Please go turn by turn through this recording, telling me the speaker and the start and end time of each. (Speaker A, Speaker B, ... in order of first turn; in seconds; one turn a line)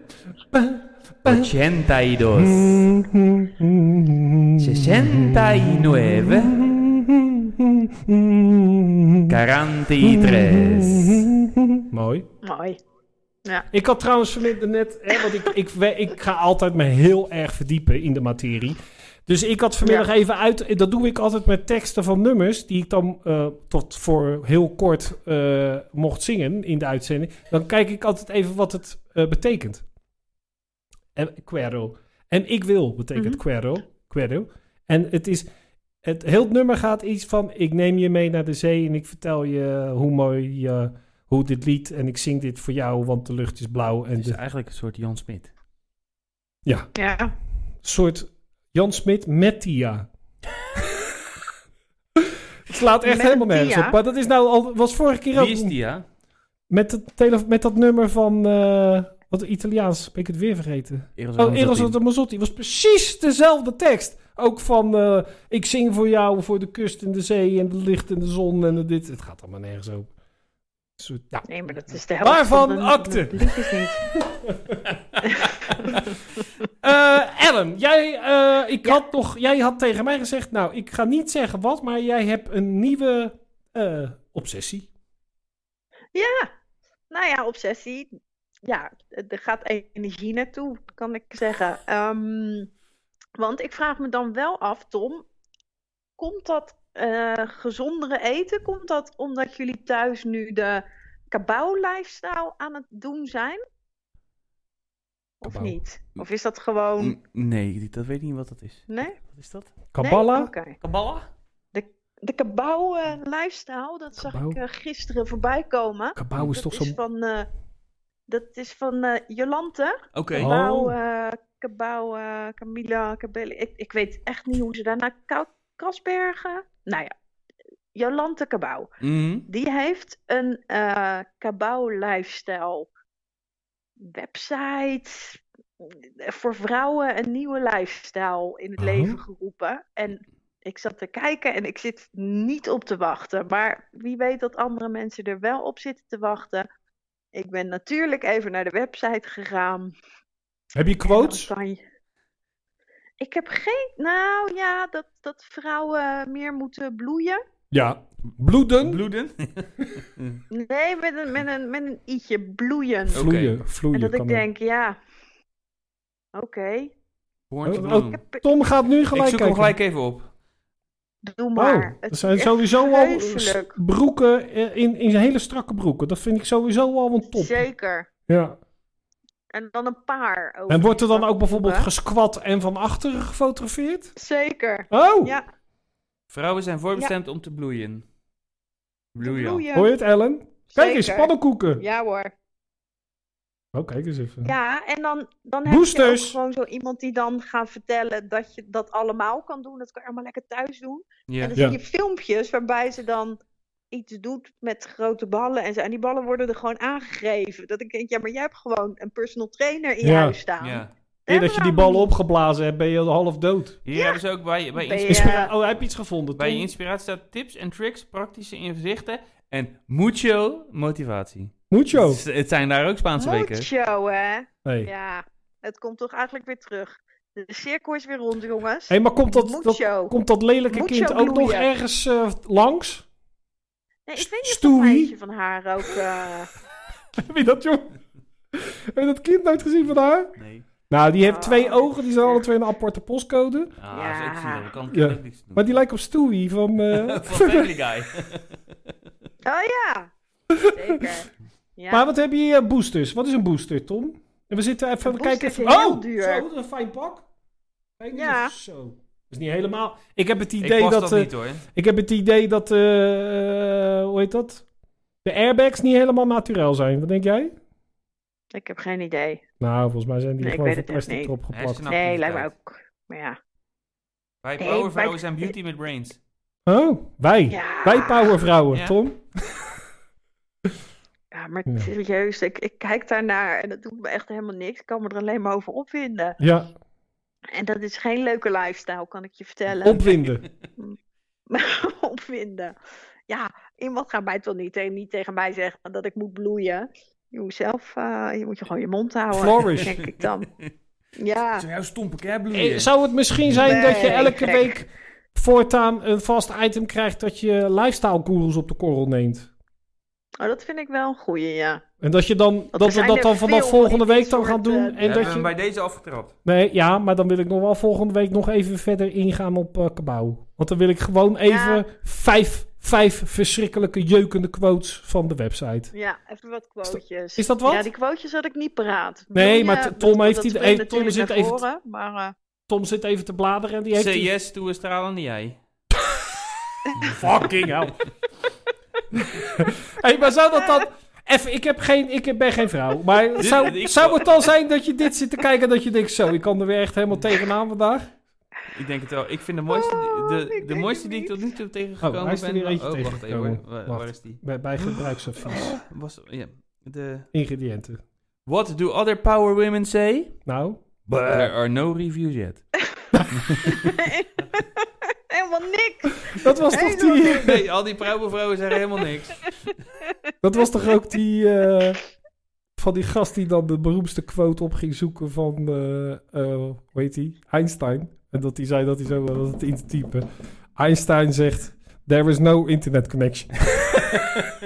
Speaker A: 0.5-1.5
Speaker B: 1.2-2.8
Speaker A: 2.4-9.4
Speaker B: 4.6-6.6
Speaker B: 9.3-11.3
Speaker A: 10.0-12.3
Speaker C: 12.4-12.8
Speaker A: 13.7-29.8
Speaker C: 15.1-15.5
Speaker A: 31.1-35.5
Speaker C: 33.1-33.4
Speaker A: 36.0-44.4
Speaker B: 44.1-45.5
Speaker A: 46.7-46.9
Speaker C: 47.0-47.3
Speaker A: 47.8-50.1
Speaker A: 52.2-55.8
Speaker C: 53.0-54.0
Speaker B: 55.4-56.0
Speaker A: 56.7-70.1
Speaker B: 61.2-62.0
Speaker A: 71.0-71.5
Speaker C: 71.5-74.0
Speaker A: 72.2-76.0
Speaker C: 75.3-75.9
Speaker A: 76.8-84.9
Speaker C: 86.2-86.5
Speaker C: 87.1-88.1
Speaker C: 88.7-92.7
Speaker C: 93.4-95.2
Speaker C: 96.2-103.6
Speaker C: 105.4-107.2
Speaker A: 105.5-105.8
Speaker B: 107.0-109.7
Speaker C: 108.9-109.2
Speaker A: 109.9-110.5
Speaker C: 110.0-110.8
Speaker B: 110.8-111.3
Speaker C: 111.7-117.5
Speaker A: 114.2-114.6
Speaker A: 116.2-117.0
Speaker C: 118.3-127.1
Speaker B: 120.1-120.5
Speaker A: 120.4-121.0
Speaker C: 128.0-128.9
Speaker B: 129.0-129.5
Speaker C: 129.5-132.9
Speaker C: 134.0-146.7
Speaker A: 138.8-139.2
Speaker C: 147.3-149.9
Speaker A: 150.8-151.5
Speaker C: 151.1-151.8
Speaker C: 153.2-157.4
Speaker A: 157.7-159.0
Speaker B: 158.8-160.4
Speaker C: 160.5-163.2
Speaker A: 163.1-164.4
Speaker B: 163.1-163.6
Speaker C: 163.9-165.0
Speaker C: 166.3-166.9
Speaker B: 167.5-168.2
Speaker A: 167.7-169.8
Speaker C: 168.1-168.4
Speaker B: 169.1-170.3
Speaker C: 171.3-173.8
Speaker A: 171.6-177.6
Speaker C: 177.3-178.1
Speaker A: 178.3-178.6
Speaker C: 179.5-181.9
Speaker A: 180.7-184.1
Speaker C: 184.2-185.5
Speaker A: 184.9-185.3
Speaker B: 186.3-188.1
Speaker B: 189.1-189.6
Speaker C: 189.2-189.9
Speaker A: 189.7-191.8
Speaker C: 190.7-192.3
Speaker A: 193.7-194.5
Speaker C: 194.4-203.4
Speaker A: 195.7-196.4
Speaker B: 201.3-201.6
Speaker C: 203.9-212.1
Speaker A: 210.0-210.4
Speaker B: 210.6-210.9
Speaker A: 211.3-213.8
Speaker B: 213.9-215.5
Speaker C: 213.9-214.2
Speaker C: 214.8-215.5
Speaker A: 215.1-216.7
Speaker B: 216.4-223.7
Speaker A: 221.7-222.2
Speaker C: 223.2-230.2
Speaker A: 224.7-224.9
Speaker A: 228.9-233.1
Speaker C: 230.7-231.7
Speaker C: 234.1-236.5
Speaker A: 234.2-235.1
Speaker A: 237.2-237.9
Speaker A: 238.5-240.3
Speaker B: 240.4-240.7
Speaker A: 240.9-243.8
Speaker C: 241.2-242.4
Speaker B: 243.8-245.7
Speaker C: 243.9-244.7
Speaker A: 244.9-247.7
Speaker B: 246.9-248.6
Speaker C: 249.5-250.1
Speaker A: 250.5-251.0
Speaker C: 250.6-252.0
Speaker A: 251.9-257.2
Speaker C: 255.0-256.4
Speaker A: 258.0-264.6
Speaker C: 258.1-258.5
Speaker B: 260.6-261.6
Speaker A: 265.2-267.6
Speaker C: 268.5-269.4
Speaker A: 269.6-271.9
Speaker C: 270.4-271.3
Speaker B: 271.5-272.5
Speaker C: 271.9-273.4
Speaker B: 274.4-276.2
Speaker C: 274.6-275.2
Speaker A: 276.7-279.6
Speaker C: 277.5-278.3
Speaker B: 278.7-279.0
Speaker C: 281.3-286.4
Speaker A: 286.4-286.7
Speaker C: 287.5-290.1
Speaker A: 289.8-290.4
Speaker C: 291.5-292.8
Speaker C: 293.3-300.5
Speaker A: 299.3-299.9
Speaker B: 300.0-300.3
Speaker C: 301.2-301.7
Speaker B: 301.6-303.8
Speaker A: 302.5-309.5
Speaker C: 303.6-304.8
Speaker C: 310.4-311.8
Speaker A: 312.0-315.5
Speaker C: 312.7-315.4
Speaker B: 315.0-316.3
Speaker A: 316.4-325.9
Speaker C: 321.5-321.9
Speaker C: 325.9-332.3
Speaker A: 326.9-327.9
Speaker A: 329.3-331.6
Speaker A: 332.7-334.3
Speaker B: 333.9-335.6
Speaker A: 336.9-338.0
Speaker B: 337.0-337.9
Speaker A: 339.1-348.1
Speaker C: 340.6-340.9
Speaker B: 343.4-344.5
Speaker B: 348.7-357.3
Speaker C: 349.7-351.5
Speaker A: 352.0-355.8
Speaker A: 357.3-358.0
Speaker B: 358.5-360.3
Speaker A: 360.5-361.5
Speaker B: 361.3-362.6
Speaker A: 363.1-363.9
Speaker B: 363.3-363.9
Speaker C: 363.7-367.3
Speaker A: 366.3-367.6
Speaker B: 367.1-369.7
Speaker A: 370.4-372.0
Speaker A: 372.8-380.2
Speaker A: 380.8-384.2